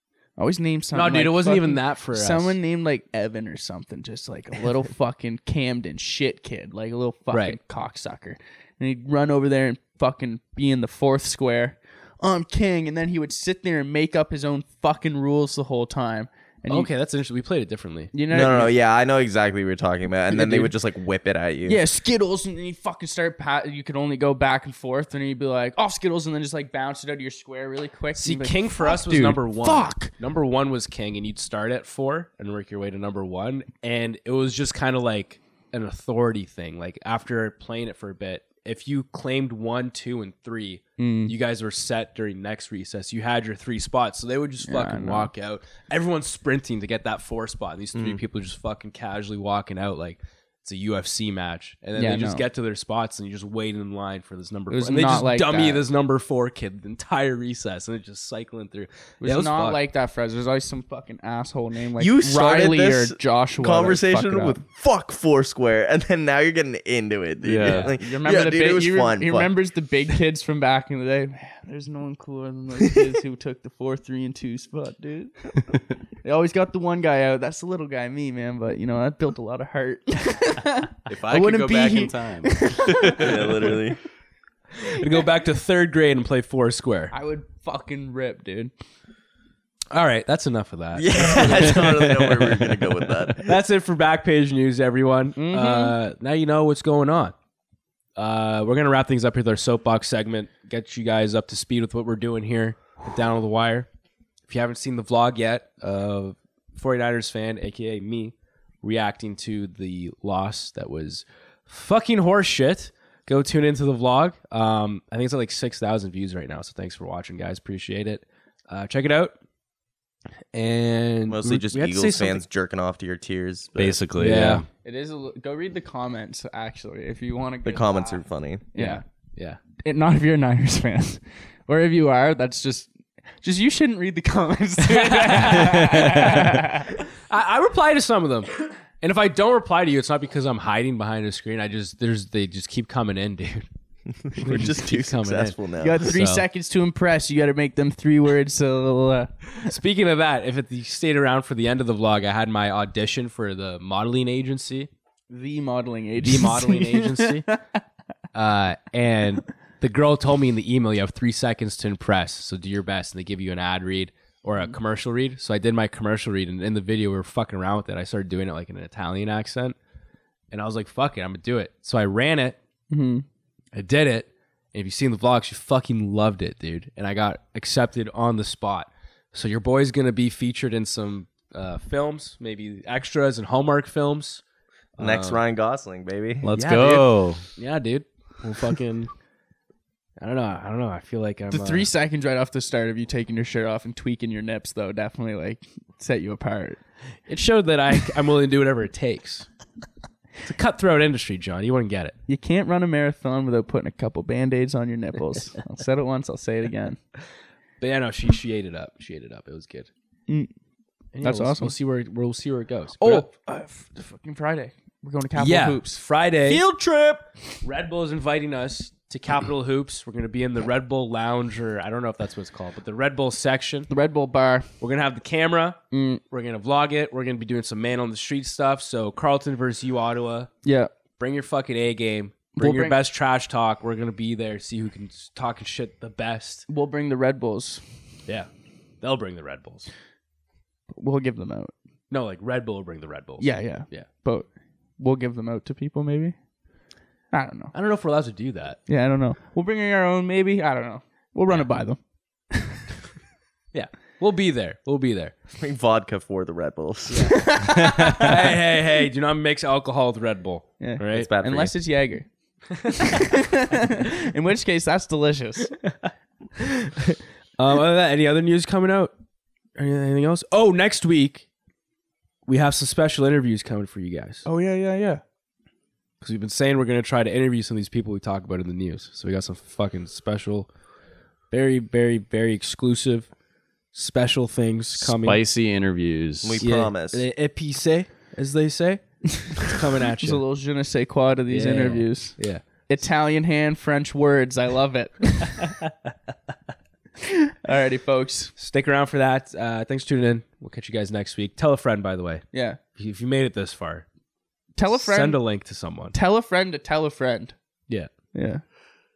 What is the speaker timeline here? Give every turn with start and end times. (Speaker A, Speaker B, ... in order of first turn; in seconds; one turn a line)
Speaker A: 0.4-16.9
Speaker B: 0.9-2.6
Speaker B: 7.3-7.6
Speaker B: 16.7-18.1
Speaker A: 18.1-18.8
Speaker C: 18.3-21.8
Speaker A: 20.3-20.7
Speaker A: 21.7-30.1
Speaker B: 28.1-59.8
Speaker A: 41.0-41.3
Speaker A: 44.7-45.3
Speaker C: 47.9-48.2
Speaker A: 52.0-52.4
Speaker A: 54.7-55.8
Speaker A: 59.2-64.6
Speaker C: 62.0-69.5
Speaker D: 67.4-67.9
Speaker A: 67.6-83.8
Speaker D: 81.1-83.3
Speaker C: 83.2-84.0
Speaker B: 84.8-87.1
Speaker A: 87.1-88.7
Speaker B: 89.9-97.3
Speaker C: 90.9-93.5
Speaker A: 95.4-96.0
Speaker B: 98.2-103.9
Speaker B: 104.5-119.4
Speaker B: 120.5-122.4
Speaker C: 121.3-124.0
Speaker D: 123.8-124.7
Speaker B: 124.2-124.7
Speaker A: 124.8-128.2
Speaker C: 127.6-128.6
Speaker A: 128.7-129.0
Speaker B: 128.8-129.6
Speaker A: 129.8-132.9
Speaker A: 133.4-137.0
Speaker B: 134.9-136.5
Speaker B: 137.3-143.7
Speaker C: 144.3-146.0
Speaker B: 144.4-146.4
Speaker A: 145.8-149.7
Speaker B: 149.6-154.9
Speaker A: 155.3-157.6
Speaker B: 156.2-157.5
Speaker B: 158.3-169.8
Speaker B: 170.5-172.6
Speaker A: 172.9-173.2
Speaker B: 173.7-184.4
Speaker B: 185.0-185.4
Speaker C: 185.0-186.5
Speaker D: 186.4-187.4
Speaker B: 186.5-189.1
Speaker B: 190.2-191.9
Speaker A: 191.5-196.8
Speaker B: 197.3-199.5
Speaker B: 200.4-202.2
Speaker A: 202.3-207.0
Speaker B: 207.8-209.9
Speaker B: 211.1-213.3
Speaker A: 211.2-211.7
Speaker A: 213.0-217.5
Speaker B: 215.4-216.6
Speaker B: 217.6-223.9
Speaker A: 223.9-224.7
Speaker B: 224.8-225.8
Speaker A: 225.9-226.2
Speaker B: 226.3-230.5
Speaker A: 230.6-230.9
Speaker B: 231.2-236.7
Speaker A: 232.6-233.0
Speaker A: 236.7-237.8
Speaker B: 239.0-239.9
Speaker A: 240.9-241.7
Speaker B: 242.1-244.1
Speaker A: 243.4-244.5
Speaker A: 245.0-246.3
Speaker A: 247.3-247.7
Speaker B: 247.7-248.8
Speaker A: 248.9-252.0
Speaker A: 252.5-252.8
Speaker B: 253.7-255.3
Speaker C: 255.6-257.5
Speaker B: 257.1-257.4
Speaker A: 257.3-258.4
Speaker B: 258.1-261.4
Speaker A: 260.8-262.3
Speaker C: 261.1-261.7
Speaker A: 263.0-265.8
Speaker B: 265.8-269.1
Speaker B: 269.8-271.5
Speaker B: 272.5-274.5
Speaker A: 274.5-275.2
Speaker B: 276.2-280.7
Speaker B: 281.5-283.3
Speaker B: 283.9-285.4
Speaker D: 285.0-286.6
Speaker C: 286.4-287.2
Speaker B: 286.6-290.4
Speaker A: 290.2-295.7
Speaker B: 291.5-292.6
Speaker A: 297.2-298.5
Speaker B: 298.6-304.1
Speaker A: 302.5-302.8
Speaker A: 304.8-305.4
Speaker B: 304.9-306.1
Speaker A: 306.1-307.5
Speaker A: 308.3-308.6